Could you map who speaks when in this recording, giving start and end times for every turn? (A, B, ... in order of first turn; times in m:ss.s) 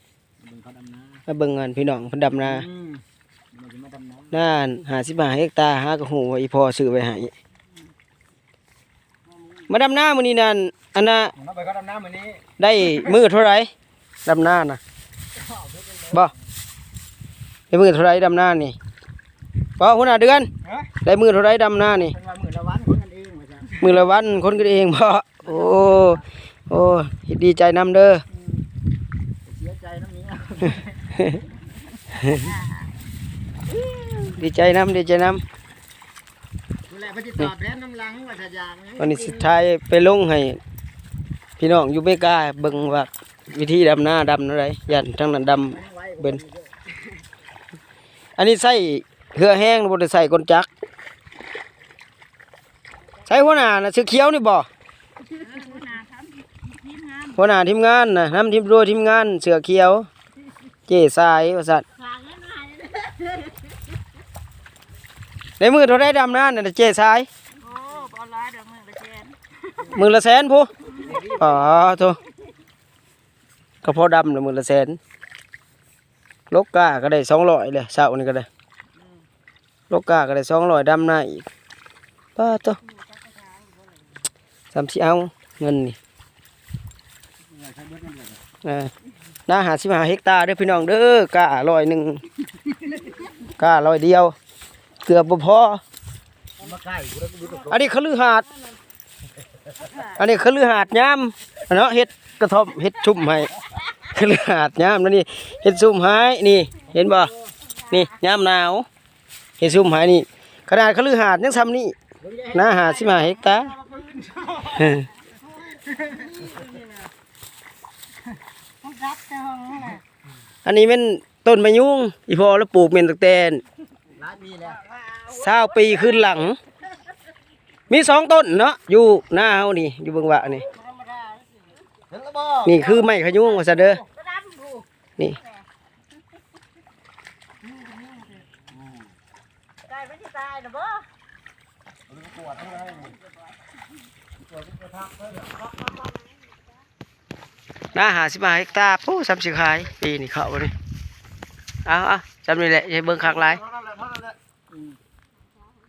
0:00.4-0:01.2 A
0:01.3-0:02.6 B
0:02.4-0:04.4 A
0:04.3-0:07.3 B
0:09.7-0:11.3 B
0:11.4-0:12.4 A
0:12.6-0:13.7 B
0:14.2-0:14.8 B
0:15.4-0:16.3 A
0:17.7-0:18.8 B
0:19.8-0:20.5 B
0:21.0-0:22.1 B
0:22.0-0:23.9 A
0:23.8-0:28.2 B
0:25.5-0:26.2 A
0:29.4-0:31.0 A
0:31.2-0:31.4 B
0:32.2-0:32.6 A
0:32.2-0:32.5 B
0:33.9-0:35.4 B
0:36.9-0:39.6 A
0:39.0-0:40.6 B
0:41.6-0:46.4 B
0:45.7-0:46.7 A
0:48.4-0:50.7 B
0:53.2-0:54.7 B
0:55.4-0:57.3 C
0:57.3-1:00.1 B
1:00.9-1:01.8 B
1:02.4-1:02.7 A
1:05.6-1:07.3 B
1:07.6-1:09.4 C
1:09.9-1:12.2 B
1:11.0-1:11.5 A
1:13.8-1:15.0 B
1:16.5-1:18.5 B
1:19.9-1:21.5 B
1:22.4-1:22.8 B
1:24.7-1:26.0 B
1:27.5-1:28.4 A
1:28.6-1:28.9 B
1:29.5-1:32.2 B
1:33.6-1:34.4 B
1:35.0-1:35.8 B
1:36.6-1:37.7 A
1:37.7-1:38.4 B
1:40.1-1:47.3 B
1:47.9-1:48.8 B
1:49.6-1:52.0 B
1:52.2-1:53.0 A
1:52.5-1:53.7 B
1:53.9-1:54.8 A
1:54.6-1:55.1 B
1:55.7-1:56.8 A
1:59.1-2:00.0 A
2:00.6-2:03.6 B
2:04.1-2:04.9 A
2:05.3-2:06.6 B
2:07.9-2:10.7 B
2:12.1-2:12.6 A
2:12.6-2:14.0 B
2:19.9-2:21.0 C
2:22.4-2:23.1 A
2:27.9-2:30.7 B
2:31.8-2:33.6 B